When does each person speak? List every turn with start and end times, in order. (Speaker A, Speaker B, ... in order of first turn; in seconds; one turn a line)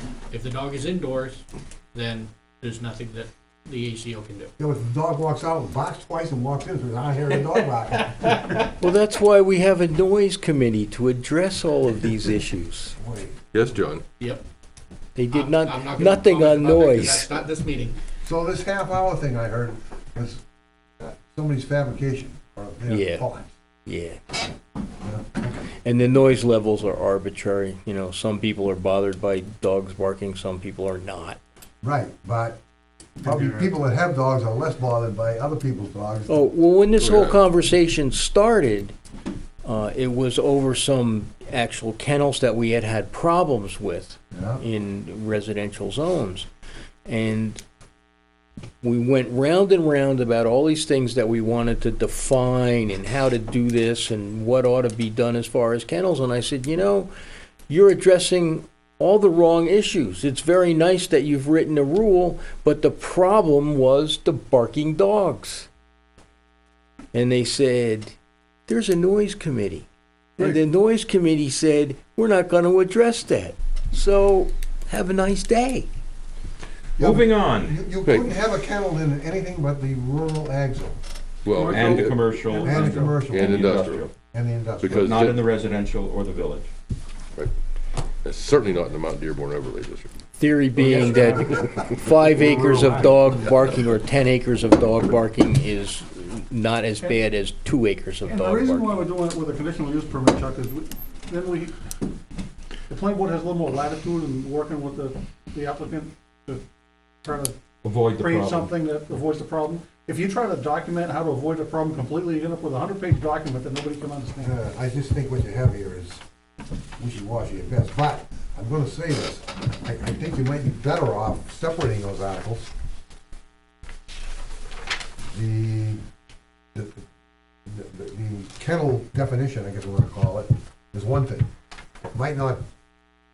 Speaker A: 0.3-4.5
Speaker B: 4.6-8.6
Speaker C: 8.8-12.9
Speaker B: 13.0-13.4
Speaker D: 13.5-14.0
Speaker C: 15.2-17.4
Speaker A: 15.3-17.9
Speaker B: 18.2-20.4
Speaker B: 21.0-23.5
Speaker C: 22.9-23.3
Speaker C: 23.9-24.2
Speaker B: 25.0-25.6
Speaker C: 25.8-31.4
Speaker B: 31.8-32.6
Speaker B: 33.2-36.5
Speaker C: 36.3-38.9
Speaker D: 37.0-37.4
Speaker C: 39.6-46.5
Speaker B: 44.3-44.6
Speaker C: 47.0-47.6
Speaker C: 48.8-57.1
Speaker C: 57.7-65.7
Speaker C: 67.1-68.1
Speaker C: 68.7-69.9
Speaker C: 70.4-75.9
Speaker B: 77.0-81.0
Speaker E: 77.0-77.8
Speaker D: 81.4-82.3
Speaker F: 81.5-83.2
Speaker E: 81.7-84.1
Speaker B: 82.6-83.6
Speaker D: 83.1-84.0
Speaker B: 84.3-85.1
Speaker D: 84.8-85.4
Speaker E: 84.9-86.7
Speaker D: 88.2-90.1
Speaker C: 90.4-99.1
Speaker F: 91.0-91.3
Speaker B: 92.7-93.1
Speaker F: 98.2-101.7
Speaker F: 102.9-106.6
Speaker F: 107.2-107.6
Speaker E: 107.8-108.7
Speaker F: 108.1-114.5
Speaker B: 114.4-116.2
Speaker B: 117.0-122.7
Speaker B: 125.3-126.0
Speaker B: 126.7-127.0
Speaker B: 127.7-131.5
Speaker B: 132.1-132.6